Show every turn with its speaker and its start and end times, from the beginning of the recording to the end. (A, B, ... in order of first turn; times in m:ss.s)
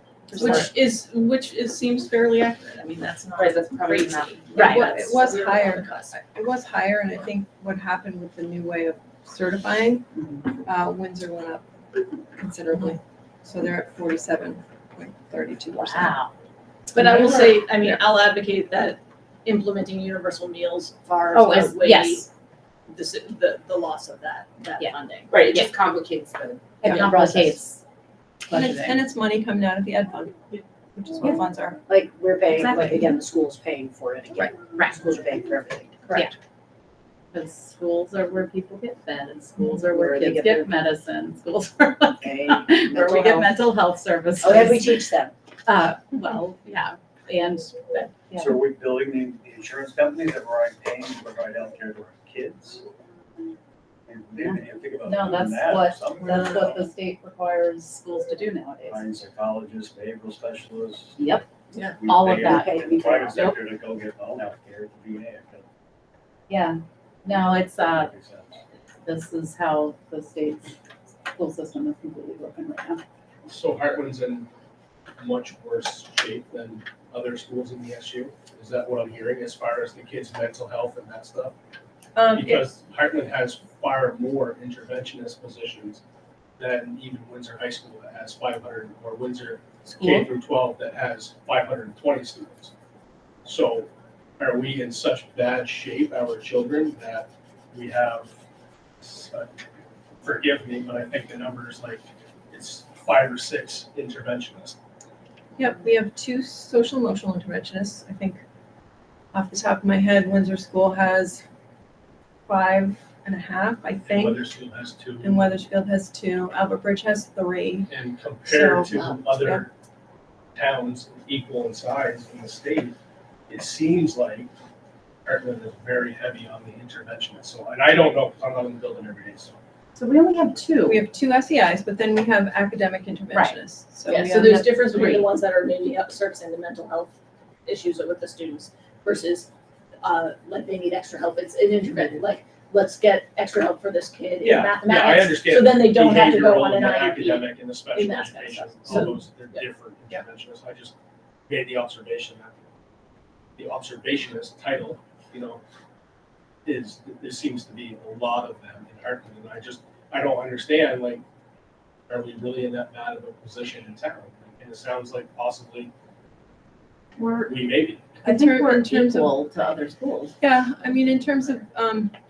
0:00.3-0:00.7 A
0:00.3-0:00.7 B
0:00.4-0:06.2 C
0:04.5-0:04.9 B
0:04.5-0:10.1 A
0:10.1-0:10.6 B
0:10.6-0:11.6 A
0:12.4-0:16.2 A
0:15.7-0:16.3 B
0:16.9-0:22.3 C
0:17.0-0:18.0 A
0:21.3-0:22.3 B
0:22.9-0:25.7 C
0:25.3-0:27.5 D
0:26.8-0:27.8 B
0:27.1-0:27.5 C
0:28.4-0:29.0 B
0:28.5-0:31.8 A
0:31.9-0:36.3 D
0:32.5-0:33.1 B
0:34.7-0:35.1 B
0:37.3-0:45.1 B
0:39.7-0:40.7 D
0:42.2-0:43.6 D
0:44.4-0:45.3 D
0:45.7-0:48.6 B
0:48.3-0:52.8 E
0:54.1-0:56.8 E
0:54.4-0:59.2 B
0:58.9-1:01.2 E
1:01.2-1:01.5 B
1:01.9-1:05.6 E
1:02.0-1:03.6 B
1:02.4-1:03.6 D
1:06.5-1:08.1 B
1:07.9-1:08.6 E
1:09.0-1:13.0 B
1:13.5-1:14.5 F
1:15.2-1:21.5 F
1:22.2-1:22.7 A
1:22.3-1:26.0 F
1:26.6-1:32.7 F
1:30.0-1:30.3 A
1:33.4-1:38.3 F
1:39.0-1:39.5 F
1:40.2-1:44.8 F
1:45.6-1:48.4 A
1:49.3-1:51.4 A
1:52.5-1:54.5 A
1:54.1-1:55.5 F
1:55.2-1:57.9 A
1:57.9-1:59.7 F
1:58.4-1:59.6 A
2:00.6-2:03.0 F
2:03.5-2:04.5 F
2:05.3-2:09.6 F
2:10.0-2:11.0 B
2:10.8-2:15.2 A
2:13.3-2:13.6 B
2:14.1-2:17.1 C
2:14.9-2:15.3 B
2:17.7-2:19.5 C
2:20.0-2:30.2 C
2:24.4-2:30.9 F
2:31.5-2:32.6 F
2:33.6-2:35.6 F
2:36.7-2:41.2 F
2:42.1-2:45.9 F
2:47.5-2:48.2 F
2:48.2-2:49.3 A
2:48.2-2:50.4 B
2:50.4-2:52.1 A